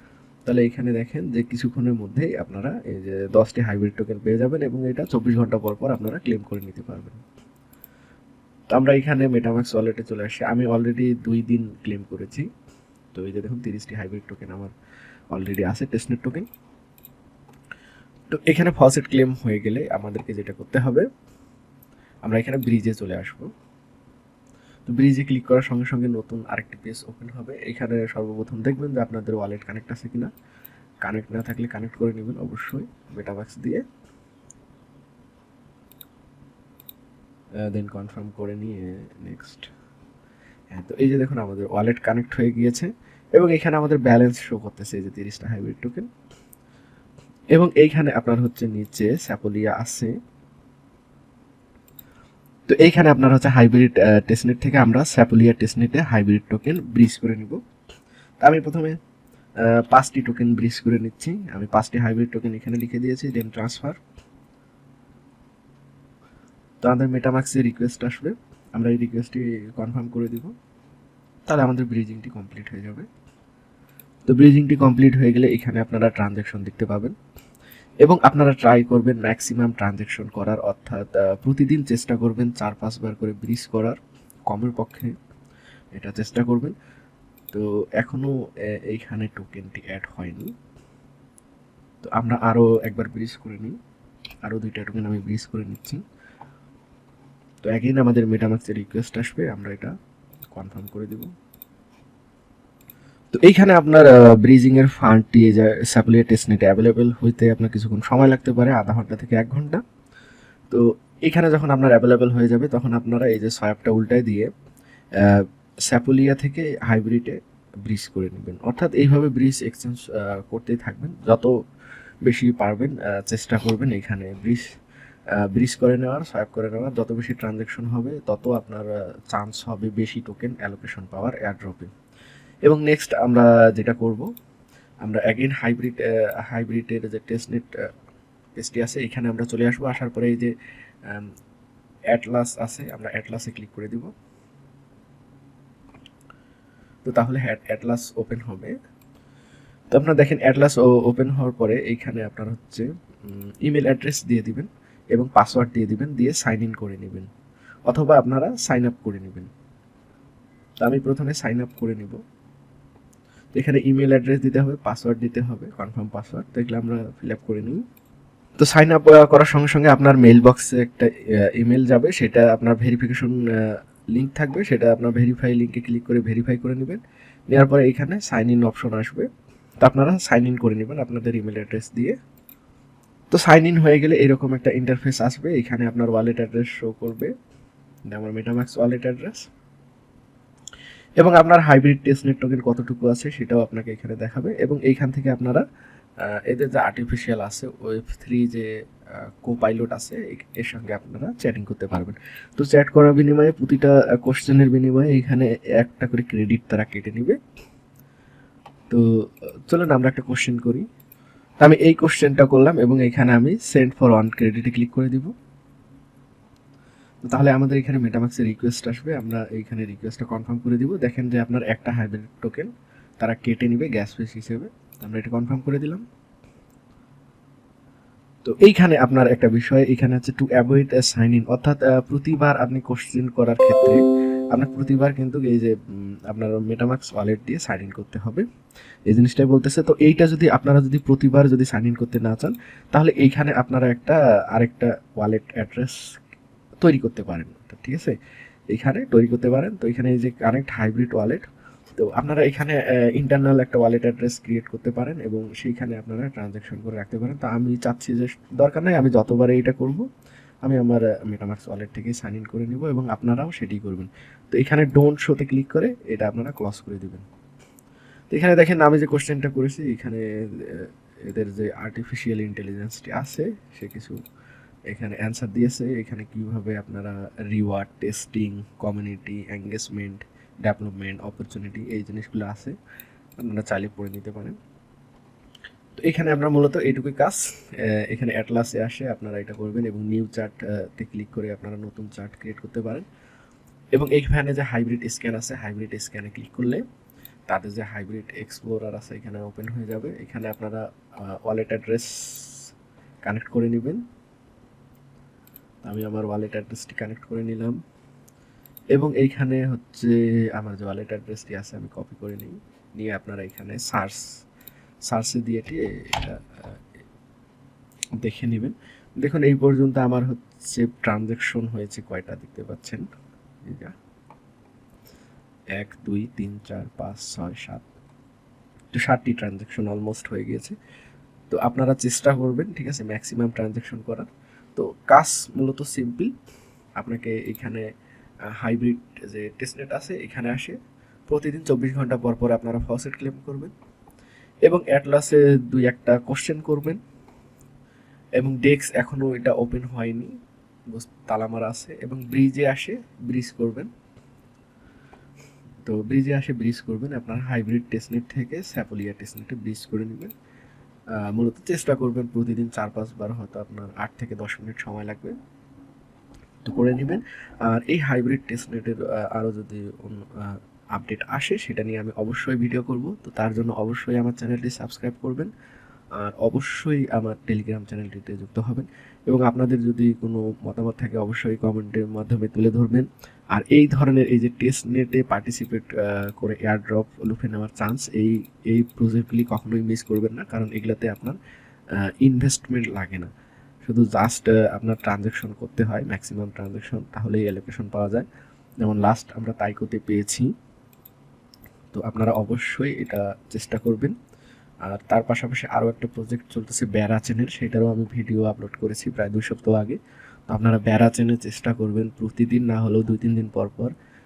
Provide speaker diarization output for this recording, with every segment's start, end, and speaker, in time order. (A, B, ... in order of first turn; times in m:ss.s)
0:00.5-0:07.2 A
0:08.7-0:12.5 A
0:13.1-0:14.7 A
0:15.3-0:16.5 A
0:18.3-0:21.1 A
0:22.2-0:23.5 A
0:24.9-0:30.3 A
0:31.0-0:33.8 A
0:37.6-0:39.7 A
0:40.7-0:46.1 A
0:47.5-0:50.2 A
0:52.7-0:57.6 A
0:58.4-0:59.0 A
0:59.6-1:04.0 A
1:06.8-1:10.5 A
1:11.5-1:13.1 A
1:14.3-1:17.2 A
1:18.0-1:25.2 A
1:26.0-1:26.8 A
1:27.5-1:30.5 A
1:32.0-1:33.8 A
1:34.4-1:36.0 A
1:37.6-1:39.9 A
1:40.5-1:41.3 A
1:43.3-1:49.8 A
1:50.7-1:54.5 A
1:55.2-2:01.5 A
2:02.2-2:04.6 A
2:05.4-2:11.9 A
2:12.6-2:14.3 A
2:15.0-2:17.7 A
2:18.6-2:20.5 A
2:22.1-2:24.1 A
2:27.0-2:28.7 A
2:29.9-2:37.3 A
2:37.9-2:39.5 A
2:40.8-2:42.2 A
2:43.5-2:47.8 A
2:48.6-2:59.3 A
2:59.8-3:02.2 A
3:03.3-3:07.3 A
3:08.1-3:09.5 A
3:11.2-3:15.6 A
3:16.3-3:18.7 A
3:19.2-3:27.4 A
3:29.7-3:30.9 A
3:31.6-3:35.3 A
3:37.2-3:46.0 A
3:48.4-3:54.0 A
3:54.5-3:55.8 A
3:56.3-3:58.5 A
3:59.1-4:06.1 A
4:06.8-4:08.2 A
4:08.7-4:11.4 A
4:12.0-4:20.1 A
4:20.6-4:27.2 A
4:28.3-4:34.2 A
4:34.9-4:42.8 A
4:43.4-4:44.6 A
4:46.0-4:53.1 A
4:53.9-4:56.8 A
4:57.5-5:02.7 A
5:03.3-5:04.0 A
5:05.8-5:07.8 A
5:08.9-5:14.2 A
5:15.1-5:16.8 A
5:18.2-5:23.0 A
5:23.6-5:23.9 A
5:25.7-5:27.8 A
5:28.9-5:30.8 A
5:31.5-5:36.3 A
5:37.0-5:37.8 A
5:38.5-5:40.8 A
5:41.3-5:43.7 A
5:44.7-5:47.0 A
5:48.4-5:50.3 A
5:50.9-5:53.9 A
5:55.8-6:00.3 A
6:01.2-6:05.4 A
6:06.6-6:15.5 A
6:16.2-6:31.4 A
6:32.1-6:33.3 A
6:33.8-6:38.3 A
6:38.8-6:40.5 A
6:41.9-6:44.2 A
6:44.9-6:53.9 A